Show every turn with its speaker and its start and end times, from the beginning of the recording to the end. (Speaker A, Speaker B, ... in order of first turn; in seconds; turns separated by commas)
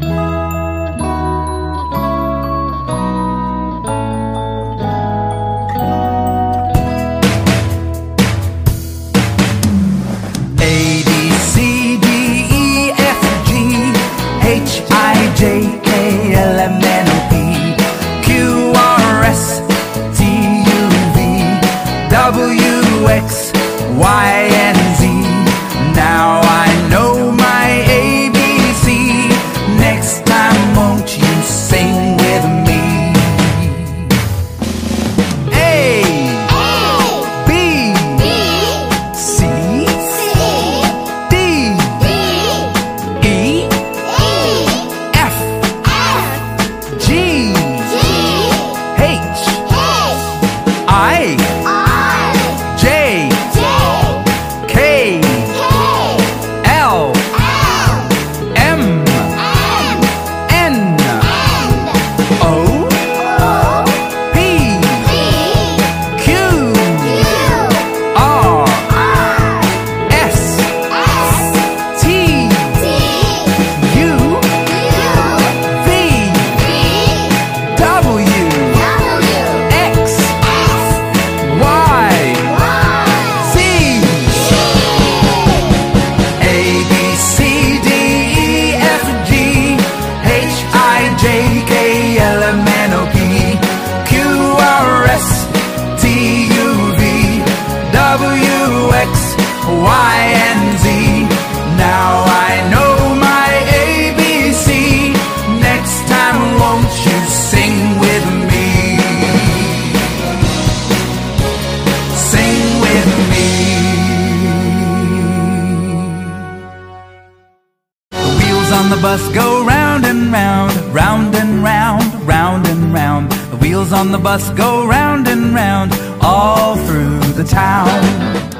Speaker A: 10.6-34.2, Speaker A: 35.5-42.4, Speaker A: 43.2-43.9, Speaker A: 44.5-46.2, Speaker A: 46.9-49.7, Speaker A: 50.8-55.8, Speaker A: 56.5-57.5, Speaker A: 58.5-59.5, Speaker A: 60.5-61.6, Speaker A: 62.4-84.6, Speaker A: 86.3-110.1, Speaker A: 112.1-116.5, Speaker A: 118.2-128.4